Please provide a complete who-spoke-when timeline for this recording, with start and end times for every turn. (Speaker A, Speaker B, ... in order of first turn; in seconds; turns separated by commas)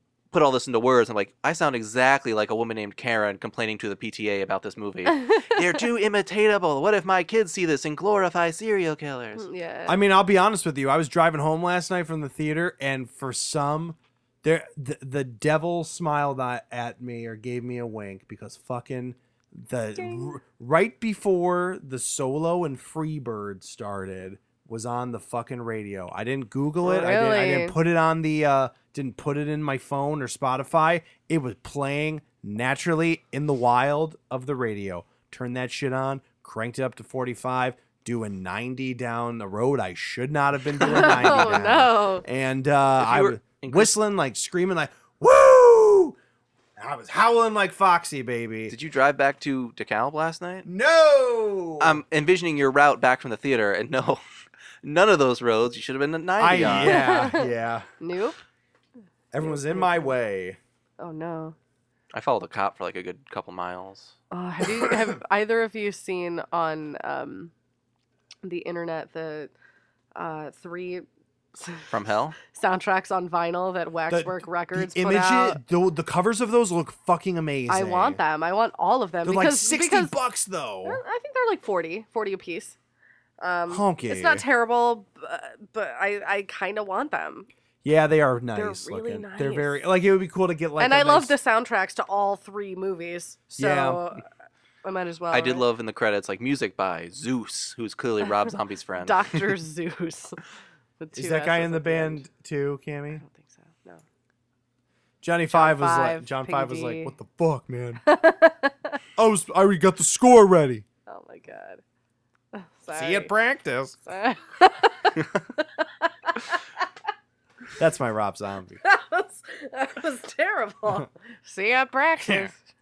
Speaker A: 0.3-9.5, Speaker B: 5.2-5.5, Speaker B: 9.4-10.0, Speaker C: 9.9-46.2, Speaker B: 20.0-20.3, Speaker B: 26.8-27.8, Speaker B: 40.8-42.2, Speaker A: 41.1-41.6, Speaker A: 43.0-44.0, Speaker C: 46.8-48.8, Speaker A: 48.7-50.7, Speaker C: 50.6-52.0, Speaker A: 51.8-54.2, Speaker A: 54.8-57.1, Speaker C: 56.4-57.9, Speaker B: 56.7-57.5, Speaker B: 58.0-58.4, Speaker C: 59.3-60.6, Speaker B: 59.4-60.1, Speaker B: 61.0-61.6, Speaker A: 62.1-64.2, Speaker B: 64.3-67.5, Speaker B: 68.4-69.5, Speaker B: 70.2-75.6, Speaker A: 71.9-72.4, Speaker C: 74.1-78.2, Speaker B: 77.7-80.1, Speaker C: 79.2-81.0, Speaker B: 80.8-82.8, Speaker B: 83.4-87.5, Speaker C: 83.7-84.5, Speaker C: 87.8-91.3, Speaker B: 88.5-89.8, Speaker B: 90.8-94.2, Speaker C: 93.5-94.0, Speaker B: 94.8-95.7, Speaker A: 95.3-99.5, Speaker B: 99.0-100.4, Speaker B: 101.0-102.2, Speaker C: 101.1-103.2, Speaker B: 103.2-104.0, Speaker C: 105.2-108.0, Speaker B: 105.5-107.1, Speaker B: 108.1-109.0, Speaker C: 109.2-110.8, Speaker B: 111.1-111.8, Speaker B: 112.5-113.3, Speaker C: 112.9-114.0, Speaker B: 114.0-116.6, Speaker C: 117.8-118.8, Speaker B: 118.8-122.6, Speaker C: 122.2-122.5